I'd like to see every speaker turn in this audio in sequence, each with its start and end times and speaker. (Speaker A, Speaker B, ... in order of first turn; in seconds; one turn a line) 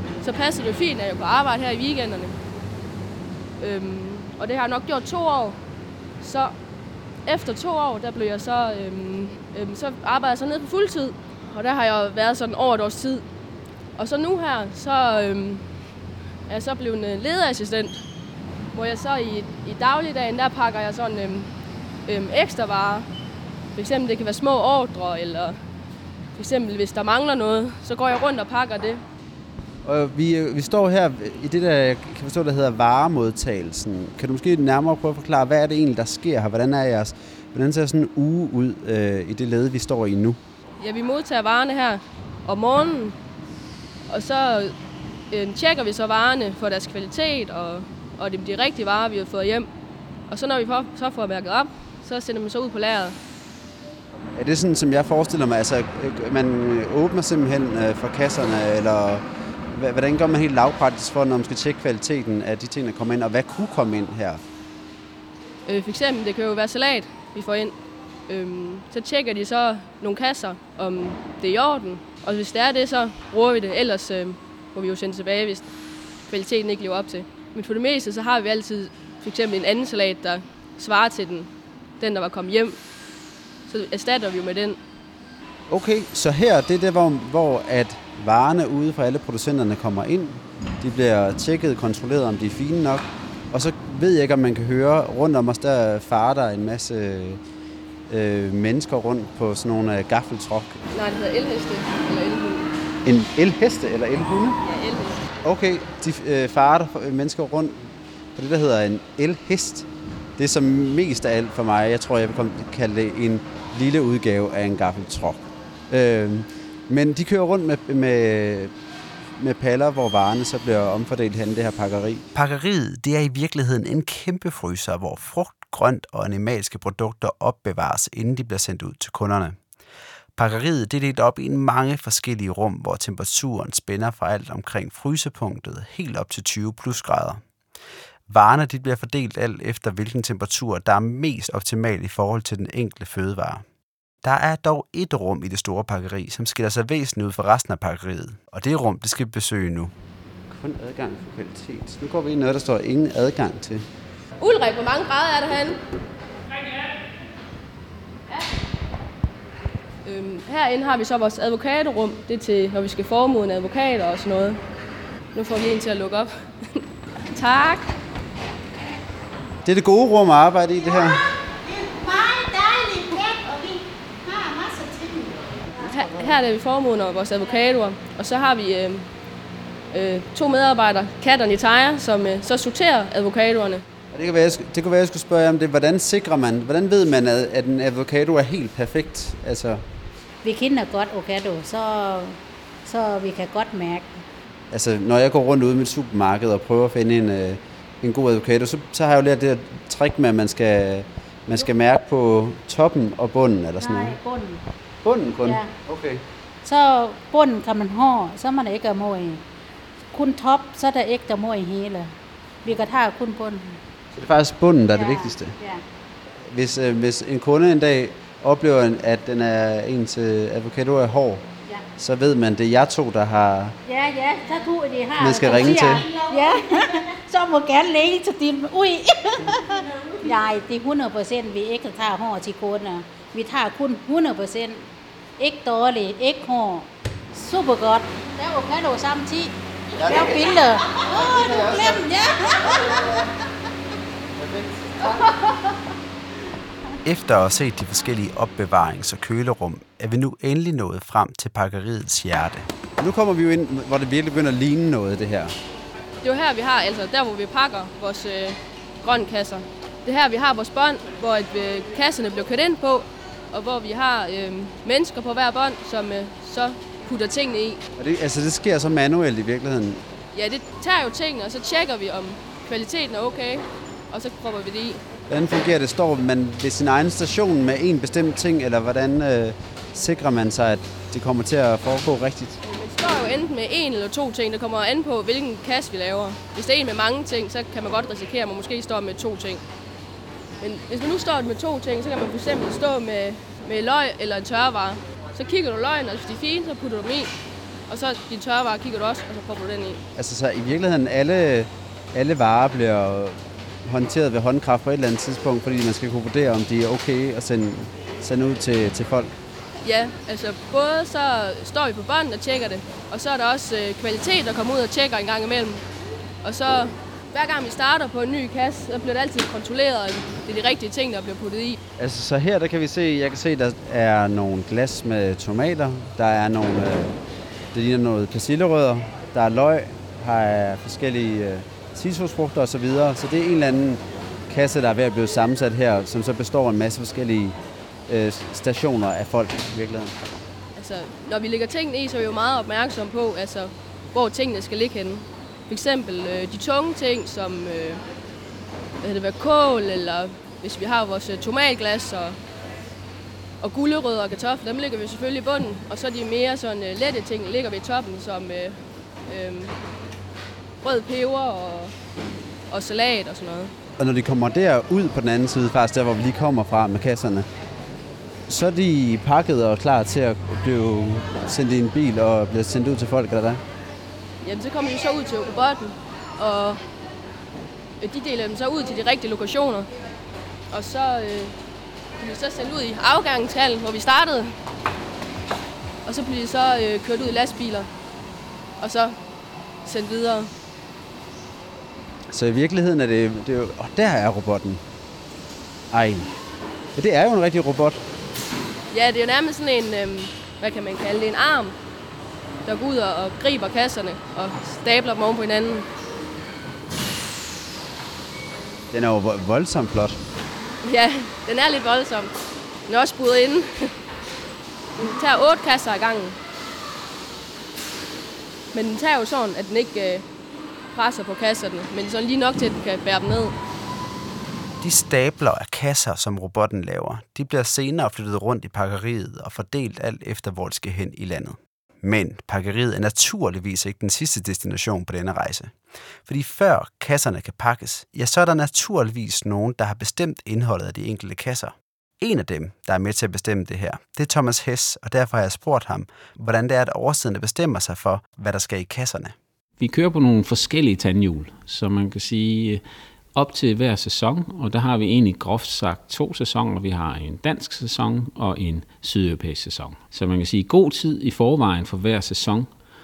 Speaker A: 0.2-2.4
Speaker A: 3.6-5.6
Speaker A: 6.2-6.5
Speaker A: 7.2-13.2
Speaker A: 14.0-15.7
Speaker A: 16.5-18.0
Speaker A: 18.7-21.5
Speaker A: 22.1-23.1
Speaker A: 23.8-25.6
Speaker A: 26.4-29.0
Speaker B: 29.9-40.4
Speaker A: 40.8-43.2
Speaker A: 44.1-44.8
Speaker A: 45.3-49.7
Speaker A: 50.3-53.2
Speaker B: 54.4-64.4
Speaker A: 65.7-67.8
Speaker A: 68.3-75.7
Speaker A: 76.3-82.8
Speaker A: 83.7-84.8
Speaker B: 85.7-97.4
Speaker B: 98.1-100.8
Speaker A: 100.9-102.7
Speaker B: 103.0-104.6
Speaker A: 104.6-105.2
Speaker B: 105.4-109.9
Speaker B: 110.4-118.7
Speaker B: 119.4-129.6
Speaker B: 130.4-137.4
Speaker B: 138.3-143.6
Speaker B: 144.2-149.9
Speaker B: 150.5-153.9
Speaker A: 154.4-155.8
Speaker A: 160.0-164.6
Speaker A: 165.3-167.9
Speaker B: 169.6-171.2
Speaker C: 172.0-173.6
Speaker C: 174.3-175.0
Speaker A: 175.9-179.1
Speaker A: 179.9-183.8
Speaker B: 184.1-189.8
Speaker C: 190.4-194.2
Speaker B: 194.7-204.2
Speaker C: 203.8-204.6
Speaker B: 205.0-206.2
Speaker C: 205.4-205.7
Speaker C: 206.6-209.4
Speaker C: 210.1-212.1
Speaker C: 212.6-213.8
Speaker B: 214.1-215.6
Speaker C: 214.9-215.8
Speaker B: 216.4-223.8
Speaker C: 223.8-234.9
Speaker B: 225.2-226.0
Speaker C: 235.4-243.0
Speaker B: 240.0-240.4
Speaker B: 241.1-242.1
Speaker B: 242.7-243.2
Speaker B: 244.4-245.3
Speaker B: 247.0-255.5
Speaker A: 256.2-267.8
Speaker B: 268.0-270.0
Speaker A: 270.3-275.0
Speaker B: 275.3-282.6
Speaker A: 282.6-289.6
Speaker A: 290.6-297.3
Speaker A: 297.9-300.0
Speaker B: 300.2-309.3
Speaker A: 309.8-315.8
Speaker A: 316.4-321.8
Speaker B: 322.0-327.2
Speaker B: 327.7-337.6
Speaker B: 338.1-340.2
Speaker A: 340.8-348.1
Speaker A: 349.0-352.4
Speaker A: 353.6-359.8
Speaker A: 360.8-361.9
Speaker A: 362.7-363.7
Speaker B: 364.0-367.5
Speaker B: 368.5-373.6
Speaker A: 374.4-376.8
Speaker A: 378.0-379.9
Speaker A: 380.7-381.5
Speaker A: 382.2-384.5
Speaker A: 386.1-387.9
Speaker A: 388.8-389.2
Speaker A: 389.9-390.5
Speaker B: 392.3-394.8
Speaker B: 395.9-396.3
Speaker B: 397.0-398.0
Speaker A: 398.9-401.8
Speaker A: 402.6-405.9
Speaker B: 408.9-410.2
Speaker A: 410.8-412.3
Speaker A: 412.9-413.9
Speaker A: 415.0-416.4
Speaker A: 418.7-420.2
Speaker A: 420.9-423.6
Speaker B: 424.8-435.7
Speaker B: 436.3-449.4
Speaker D: 449.8-452.8
Speaker D: 453.4-462.7